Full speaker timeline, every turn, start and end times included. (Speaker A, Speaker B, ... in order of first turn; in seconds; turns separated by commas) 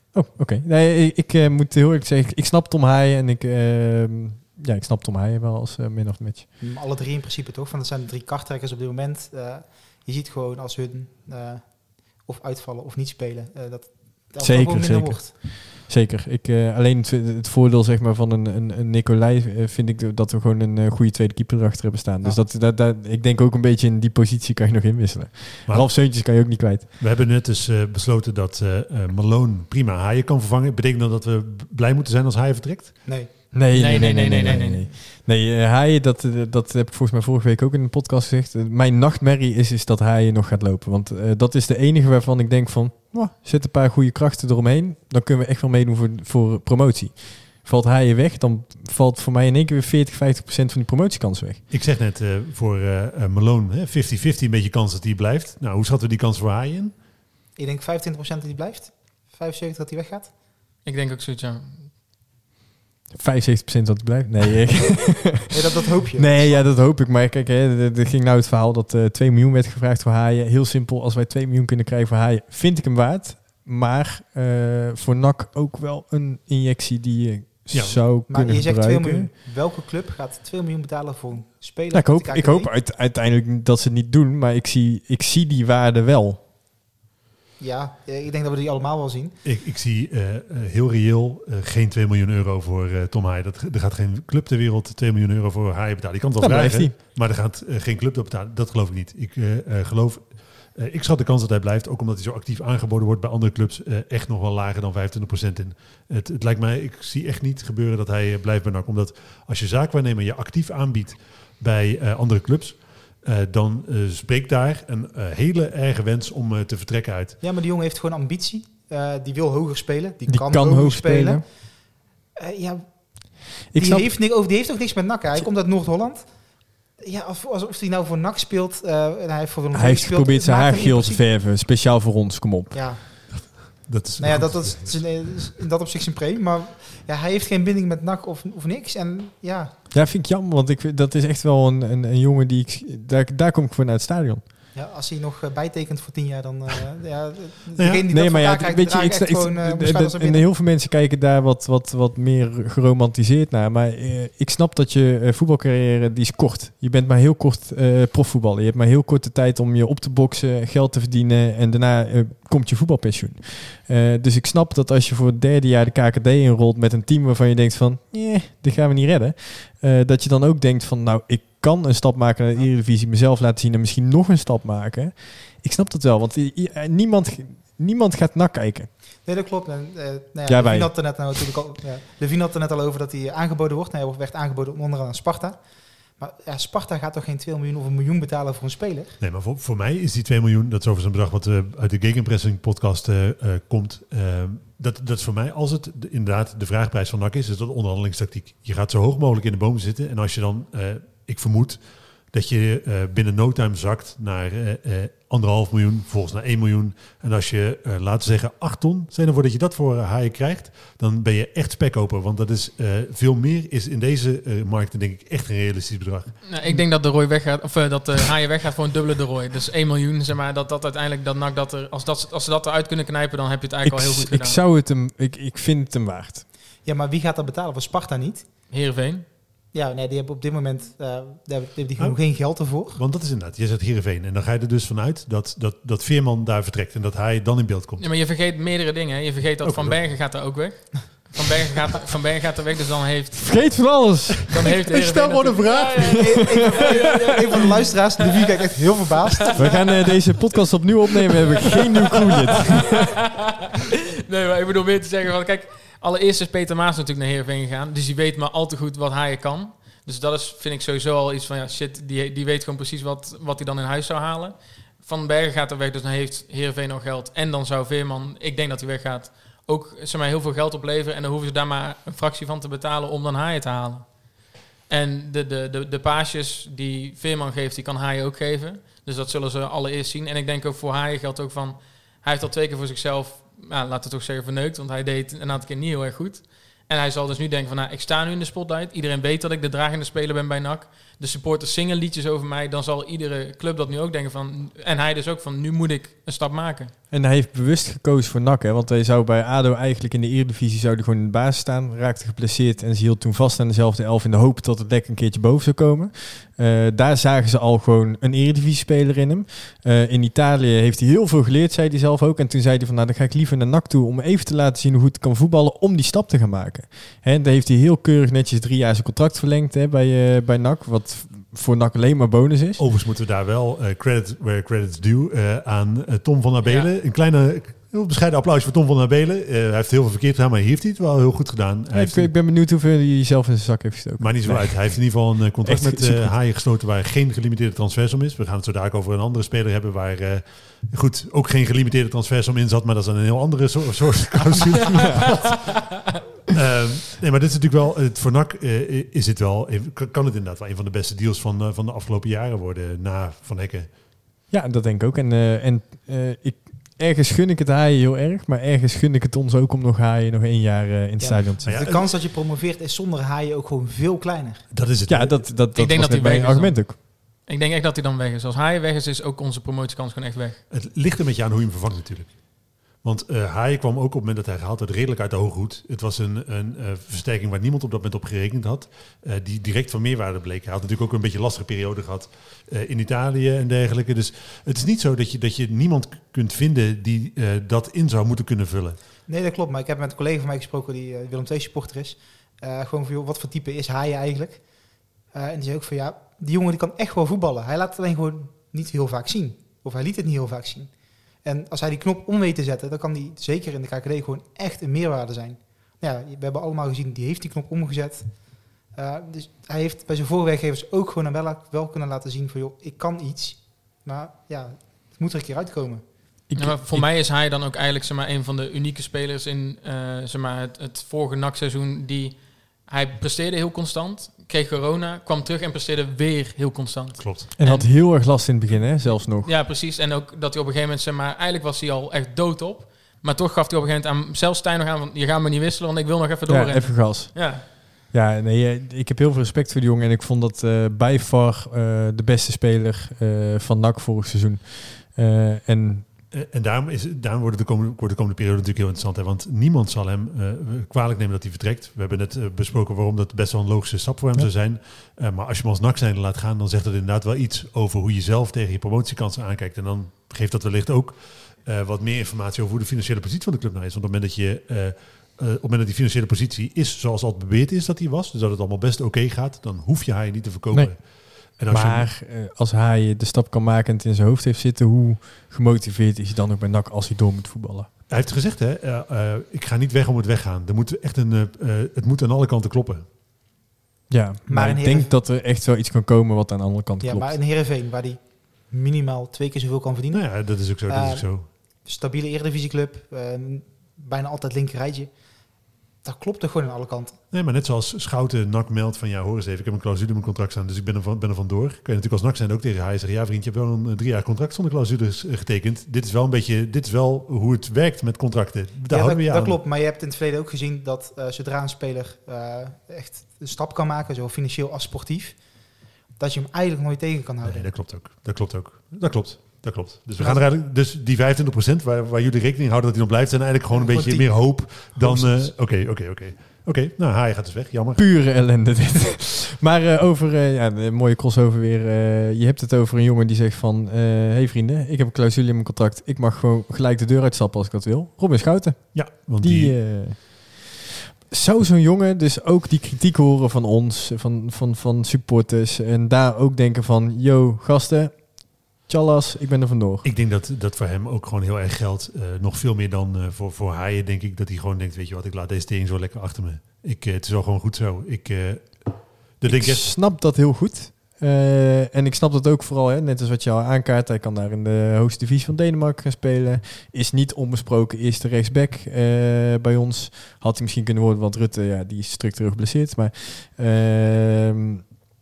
Speaker A: 0.1-6.5, Speaker B: 6.6-15.3, Speaker A: 14.4-26.9, Speaker C: 25.7-33.0, Speaker B: 33.0-33.3, Speaker A: 33.5-51.6, Speaker D: 33.7-34.9, Speaker C: 51.7-56.9, Speaker B: 57.5-60.3, Speaker D: 60.8-61.8, Speaker A: 63.1-65.5, Speaker B: 65.5-66.6, Speaker A: 66.2-79.3, Speaker C: 77.7-78.0, Speaker B: 78.2-82.7, Speaker A: 81.9-86.4, Speaker B: 87.6-89.4, Speaker C: 89.4-117.3, Speaker A: 96.4-96.9, Speaker B: 117.4-121.8, Speaker A: 120.3-121.4, Speaker B: 122.4-126.3, Speaker A: 123.7-124.1, Speaker B: 127.0-131.2, Speaker A: 129.7-132.8, Speaker B: 132.7-133.6, Speaker C: 133.4-134.9, Speaker B: 134.2-139.8, Speaker A: 139.9-144.4, Speaker B: 144.7-150.4, Speaker A: 148.1-178.9, Speaker B: 179.2-185.6, Speaker A: 180.5-181.2, Speaker B: 186.2-189.2, Speaker C: 189.2-216.4, Speaker D: 216.4-224.6, Speaker A: 223.8-226.4, Speaker B: 226.8-228.4, Speaker D: 228.7-229.2, Speaker B: 229.7-233.0, Speaker C: 232.0-238.1, Speaker D: 238.0-250.5, Speaker C: 239.6-240.6, Speaker A: 243.3-244.5, Speaker C: 244.6-247.2, Speaker B: 245.9-249.6, Speaker A: 249.6-252.8, Speaker D: 254.2-274.2, Speaker D: 274.9-296.9, Speaker A: 297.1-322.8, Speaker C: 322.8-332.3, Speaker D: 326.6-326.9, Speaker A: 331.9-336.3, Speaker C: 334.2-353.9, Speaker A: 354.5-361.7, Speaker B: 361.2-364.6, Speaker C: 361.6-362.1, Speaker C: 364.7-365.4, Speaker A: 365.1-366.9, Speaker D: 365.7-370.6, Speaker C: 370.7-389.0, Speaker B: 389.3-394.6, Speaker B: 395.3-400.9, Speaker B: 401.4-416.0, Speaker A: 416.5-417.1, Speaker D: 416.6-427.9, Speaker C: 427.2-427.4, Speaker A: 427.6-429.5, Speaker D: 429.1-437.6, Speaker A: 436.5-446.1, Speaker C: 446.3-472.1, Speaker A: 471.5-477.9, Speaker C: 478.1-483.1, Speaker A: 484.1-487.4, Speaker B: 484.5-485.1, Speaker B: 487.0-495.1, Speaker C: 490.1-491.4, Speaker B: 496.0-497.2, Speaker C: 497.3-509.6, Speaker B: 508.9-515.4, Speaker B: 516.2-517.7, Speaker C: 517.4-528.0, Speaker B: 520.2-520.4, Speaker B: 523.7-525.5, Speaker A: 528.0-540.6, Speaker C: 538.9-539.8, Speaker A: 541.3-550.0, Speaker C: 550.0-559.9, Speaker A: 559.4-574.9